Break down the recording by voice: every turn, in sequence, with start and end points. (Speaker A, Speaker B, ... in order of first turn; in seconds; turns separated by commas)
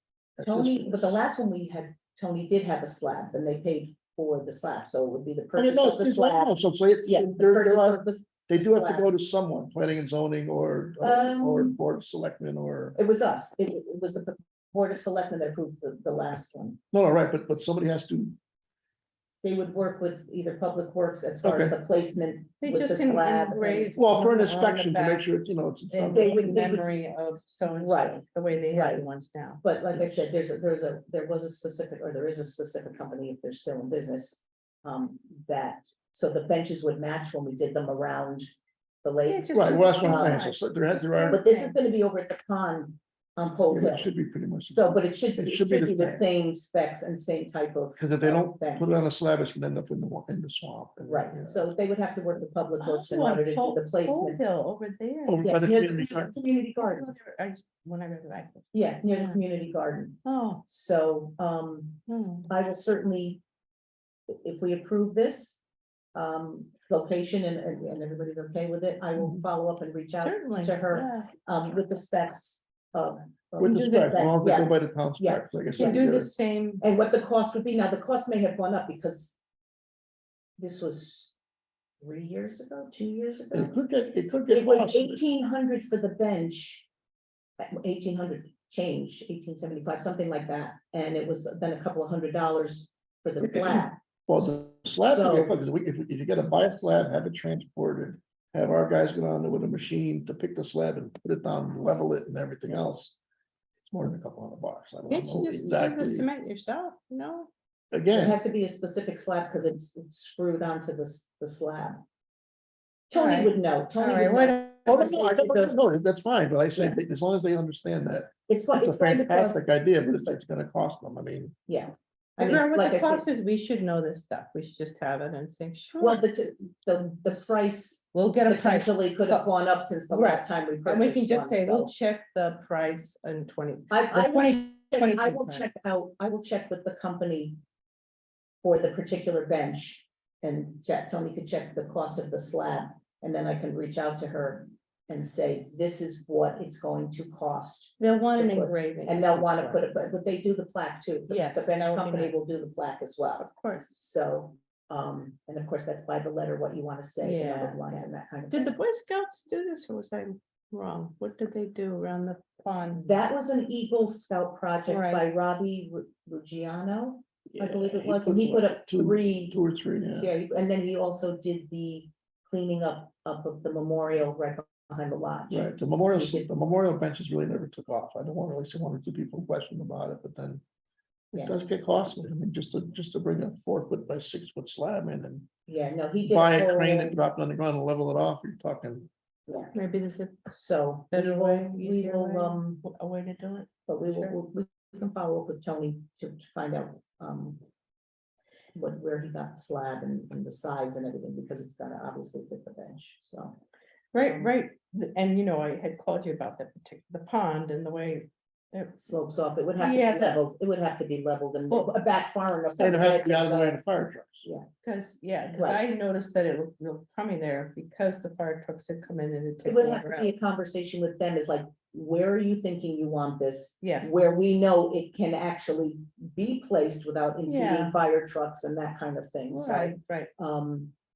Speaker A: 0.4-1.1, Speaker B: 0.4-9.1, Speaker A: 5.5-13.0, Speaker B: 11.0-11.8, Speaker B: 12.9-16.8, Speaker A: 16.9-18.4, Speaker B: 19.4-23.9, Speaker A: 21.4-21.7, Speaker C: 22.6-25.2, Speaker A: 23.9-26.6, Speaker C: 25.9-29.6, Speaker B: 26.1-26.9, Speaker B: 27.8-29.0, Speaker B: 29.6-38.5, Speaker B: 39.0-40.4, Speaker C: 39.2-41.7, Speaker A: 39.5-41.4, Speaker B: 41.3-44.1, Speaker A: 43.7-46.2, Speaker B: 44.7-48.9, Speaker A: 48.0-51.7, Speaker B: 51.0-54.4, Speaker C: 52.8-55.5, Speaker A: 55.2-56.3, Speaker B: 55.4-57.1, Speaker C: 56.7-59.4, Speaker B: 58.7-63.4, Speaker C: 60.2-60.6, Speaker C: 62.1-62.5, Speaker B: 64.3-65.6, Speaker B: 66.1-76.0, Speaker C: 70.2-71.3, Speaker A: 73.6-76.3, Speaker C: 73.7-74.2, Speaker C: 75.7-76.8, Speaker B: 76.8-79.3, Speaker B: 80.6-81.3, Speaker B: 82.0-83.8, Speaker A: 83.5-85.2, Speaker B: 84.5-86.8, Speaker B: 87.6-94.5, Speaker A: 94.3-103.1, Speaker B: 95.1-95.5, Speaker A: 103.9-106.3, Speaker C: 105.1-107.5, Speaker A: 107.9-108.4, Speaker B: 108.1-112.0, Speaker B: 113.1-115.7, Speaker C: 113.1-115.1, Speaker A: 114.9-121.5, Speaker B: 116.7-117.0, Speaker B: 118.5-120.4, Speaker B: 121.7-123.2, Speaker C: 122.4-126.2, Speaker B: 126.0-131.9, Speaker C: 128.1-129.5, Speaker C: 130.1-135.7, Speaker B: 133.9-137.6, Speaker B: 138.6-158.7, Speaker C: 148.0-149.8, Speaker C: 151.3-152.4, Speaker C: 153.5-154.0, Speaker C: 157.2-163.1, Speaker B: 162.9-176.5, Speaker C: 164.9-165.3, Speaker A: 167.5-170.3, Speaker A: 175.5-180.6, Speaker A: 181.3-185.5, Speaker B: 185.7-187.2, Speaker A: 186.2-189.1, Speaker B: 189.5-189.7, Speaker C: 189.7-190.4, Speaker B: 190.5-192.8, Speaker C: 191.1-194.4, Speaker B: 193.9-197.6, Speaker B: 198.7-203.6, Speaker C: 204.1-208.9, Speaker B: 204.2-204.5, Speaker B: 209.0-213.8, Speaker C: 209.8-210.4, Speaker A: 212.7-214.5, Speaker C: 214.8-220.3, Speaker B: 215.5-215.8, Speaker B: 219.6-230.9, Speaker C: 223.8-224.1, Speaker C: 227.4-228.0, Speaker C: 229.5-230.3